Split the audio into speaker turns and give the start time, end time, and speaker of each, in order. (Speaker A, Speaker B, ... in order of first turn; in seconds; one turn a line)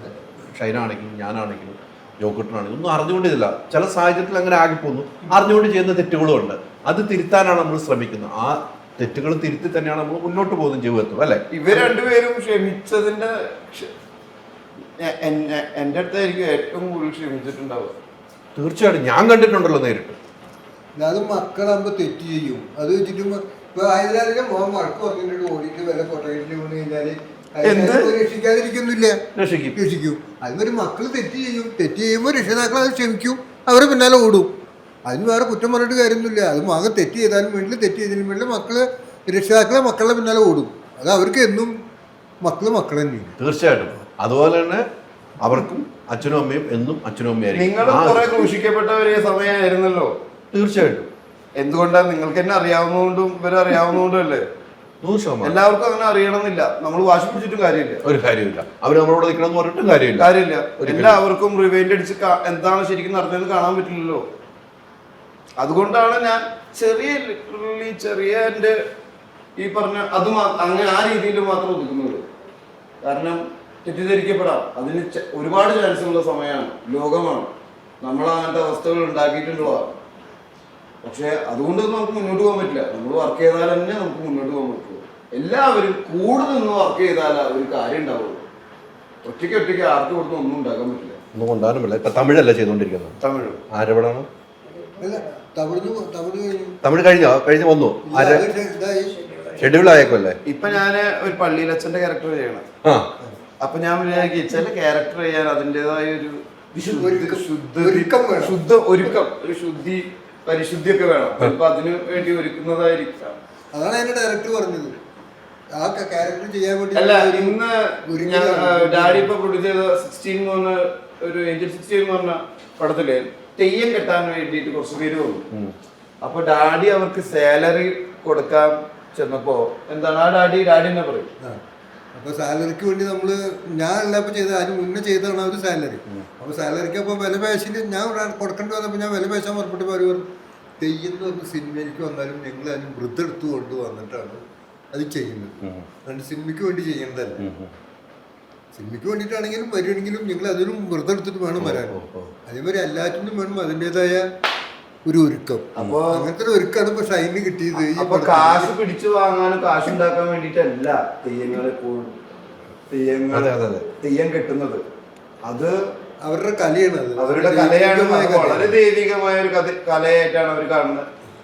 Speaker A: 0.5-11.4
Speaker B: 11.5-13.9
Speaker C: 11.7-12.0
Speaker B: 15.0-17.9
Speaker A: 18.6-20.2
Speaker C: 21.0-29.2
Speaker B: 27.6-28.2
Speaker A: 29.4-29.8
Speaker C: 29.7-34.5
Speaker C: 35.1-41.8
Speaker C: 42.4-43.4
Speaker A: 43.4-44.8
Speaker A: 45.4-48.5
Speaker B: 47.5-50.1
Speaker A: 50.5-51.1
Speaker B: 51.6-54.5
Speaker A: 55.0-55.6
Speaker B: 55.4-58.0
Speaker A: 58.0-60.3
Speaker B: 60.2-64.2
Speaker A: 60.8-61.2
Speaker B: 65.6-68.8
Speaker B: 69.6-72.2
Speaker B: 73.0-80.0
Speaker B: 81.0-88.4
Speaker B: 89.2-91.2
Speaker A: 91.3-93.2
Speaker B: 93.2-93.6
Speaker A: 93.7-94.3
Speaker C: 95.0-96.8
Speaker A: 96.8-98.5
Speaker C: 98.0-99.5
Speaker A: 99.6-100.4
Speaker B: 100.5-102.7
Speaker A: 102.8-103.1
Speaker B: 103.6-113.4
Speaker C: 107.0-108.6
Speaker C: 113.7-114.9
Speaker C: 115.8-119.3
Speaker B: 116.9-125.5
Speaker B: 126.2-131.3
Speaker C: 132.2-140.2
Speaker C: 140.8-144.4
Speaker C: 144.9-147.4
Speaker A: 145.6-145.9
Speaker A: 147.4-147.7
Speaker C: 148.7-151.9
Speaker A: 151.6-152.3
Speaker C: 152.5-154.3
Speaker C: 155.1-158.7
Speaker B: 155.8-156.3
Speaker B: 157.8-162.2
Speaker B: 162.9-164.8
Speaker A: 163.3-163.9
Speaker B: 165.4-165.8
Speaker C: 166.2-168.8
Speaker B: 167.2-171.1